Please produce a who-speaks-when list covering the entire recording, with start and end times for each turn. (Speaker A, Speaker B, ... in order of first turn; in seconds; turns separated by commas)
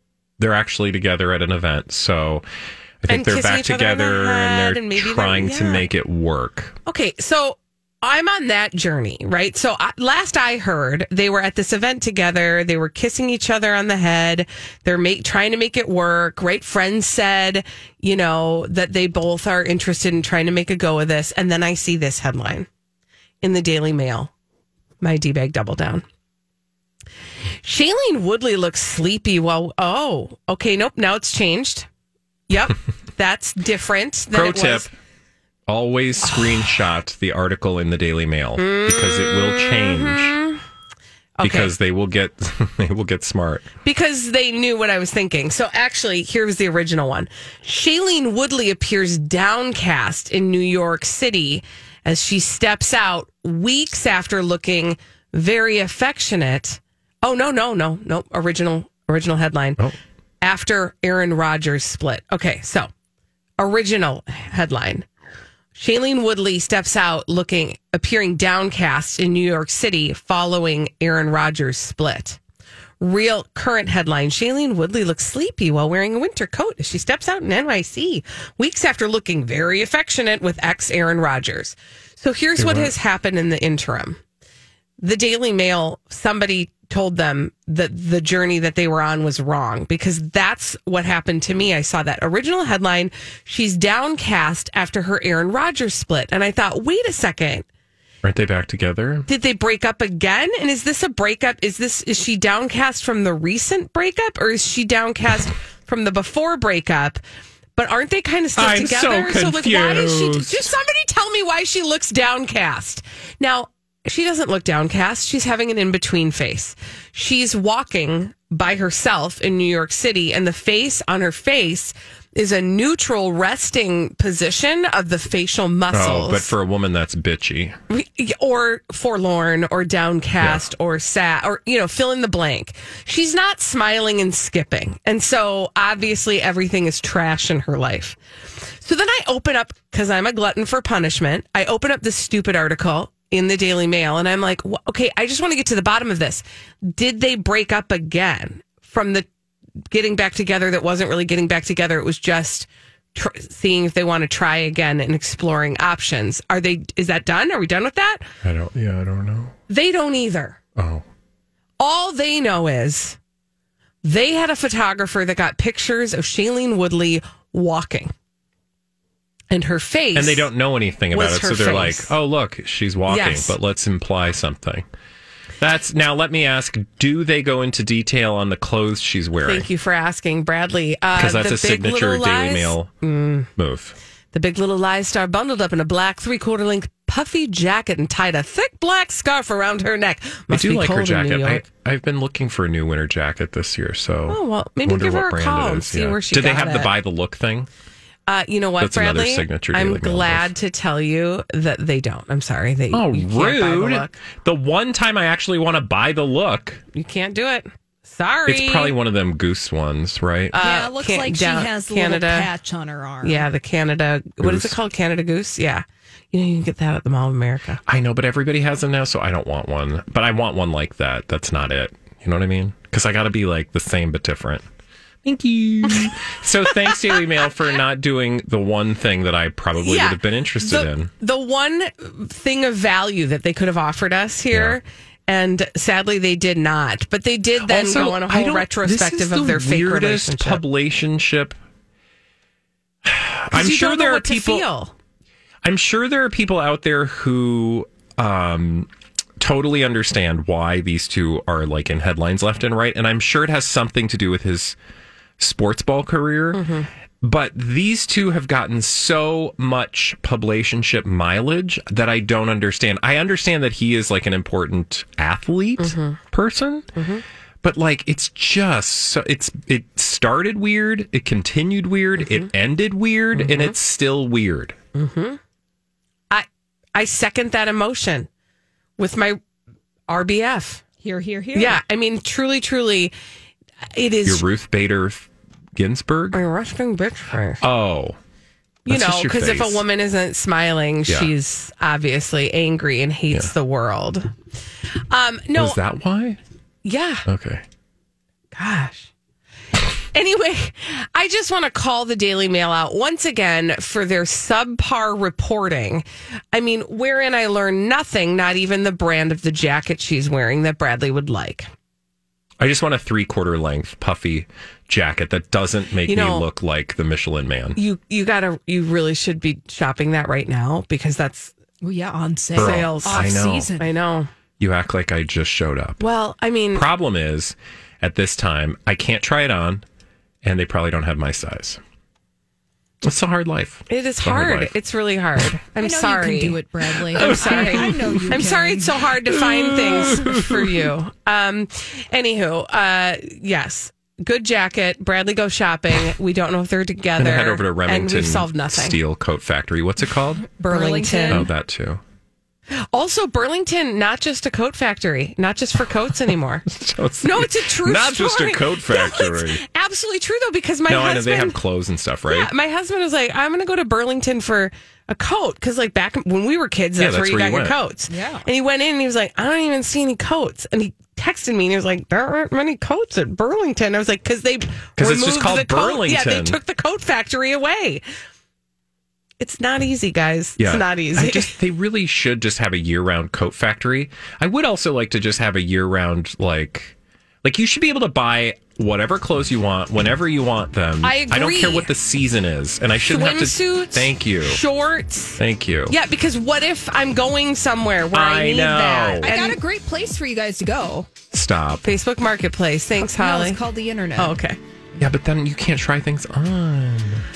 Speaker A: 0.4-2.4, Speaker A: 3.0-6.8, Speaker B: 3.1-5.8, Speaker B: 6.8-22.7, Speaker B: 23.4-24.3, Speaker B: 25.0-26.0, Speaker B: 27.6-31.9, Speaker B: 32.5-34.9, Speaker A: 34.3-34.9, Speaker A: 35.7-40.4, Speaker B: 38.6-40.6, Speaker B: 41.4-41.7, Speaker A: 41.4-43.7, Speaker B: 43.8-59.8, Speaker B: 60.4-62.9, Speaker B: 63.6-65.1, Speaker B: 65.7-72.4, Speaker B: 73.0-84.2, Speaker A: 82.6-82.9, Speaker B: 85.0-97.7, Speaker A: 98.2-99.3, Speaker B: 99.3-107.2, Speaker B: 107.8-126.5, Speaker A: 108.5-110.7, Speaker A: 125.9-127.8, Speaker B: 127.9-138.2, Speaker A: 130.4-130.7, Speaker B: 138.8-149.3, Speaker B: 149.9-158.3, Speaker A: 158.4-159.6, Speaker B: 159.7-160.6, Speaker A: 160.8-161.0, Speaker B: 161.8-163.2, Speaker B: 164.0-168.1, Speaker B: 169.5-170.5, Speaker A: 170.1-174.9, Speaker B: 171.1-172.1, Speaker B: 173.1-173.6, Speaker A: 175.6-179.7, Speaker B: 179.4-183.5, Speaker A: 181.2-182.9, Speaker A: 183.6-183.9, Speaker B: 184.3-191.6, Speaker A: 190.5-197.7, Speaker B: 194.3-196.9, Speaker B: 198.3-204.2, Speaker A: 198.8-200.5, Speaker A: 202.9-206.8, Speaker B: 206.9-208.9, Speaker A: 208.4-210.6, Speaker B: 210.5-212.5, Speaker C: 210.6-213.5, Speaker B: 213.2-217.8, Speaker A: 214.4-214.8, Speaker A: 217.8-224.7, Speaker A: 225.2-231.1, Speaker B: 229.8-240.6, Speaker A: 234.5-234.8, Speaker A: 237.6-241.6, Speaker A: 243.0-244.7, Speaker B: 243.5-244.9, Speaker A: 245.6-254.8, Speaker A: 255.4-266.9, Speaker B: 256.5-256.9, Speaker B: 265.8-266.2, Speaker B: 266.9-267.2, Speaker A: 267.6-274.8, Speaker B: 272.2-272.5, Speaker B: 273.3-273.7, Speaker B: 274.9-275.4, Speaker B: 276.3-278.3, Speaker B: 279.0-279.4, Speaker B: 280.1-280.8, Speaker C: 281.0-281.8, Speaker B: 281.5-283.1, Speaker B: 283.9-284.4, Speaker A: 284.2-286.4, Speaker B: 286.3-287.6, Speaker A: 287.6-288.2, Speaker B: 288.9-294.3, Speaker A: 288.9-289.8, Speaker B: 295.1-295.8, Speaker A: 295.5-296.4, Speaker B: 296.8-297.3, Speaker A: 297.2-297.6, Speaker B: 298.5-299.1, Speaker B: 300.1-311.7, Speaker A: 312.6-317.8, Speaker B: 316.1-316.5, Speaker B: 317.8-321.5, Speaker C: 321.8-323.9, Speaker A: 322.5-323.7, Speaker B: 322.5-324.3, Speaker A: 324.6-326.0, Speaker B: 326.0-326.9, Speaker A: 326.7-329.8, Speaker A: 330.4-331.8, Speaker A: 333.0-334.7, Speaker B: 333.9-336.6, Speaker C: 335.8-339.1, Speaker B: 337.1-349.0, Speaker A: 337.1-338.5, Speaker A: 339.2-340.9, Speaker A: 347.2-350.5, Speaker C: 350.5-351.5, Speaker B: 350.7-351.5, Speaker A: 351.3-352.0, Speaker B: 352.9-356.6, Speaker A: 356.6-359.6, Speaker B: 357.2-361.6, Speaker A: 360.9-362.5, Speaker B: 362.3-378.0, Speaker A: 367.0-367.8, Speaker C: 368.1-368.4, Speaker A: 374.9-376.6, Speaker B: 379.4-381.6, Speaker A: 380.6-394.6, Speaker B: 391.0-391.9, Speaker B: 393.1-399.6, Speaker A: 395.4-395.9, Speaker A: 398.1-399.3, Speaker C: 399.2-401.1, Speaker A: 401.3-401.9, Speaker B: 401.8-403.6, Speaker C: 403.0-404.4, Speaker B: 404.1-404.6, Speaker A: 405.0-407.2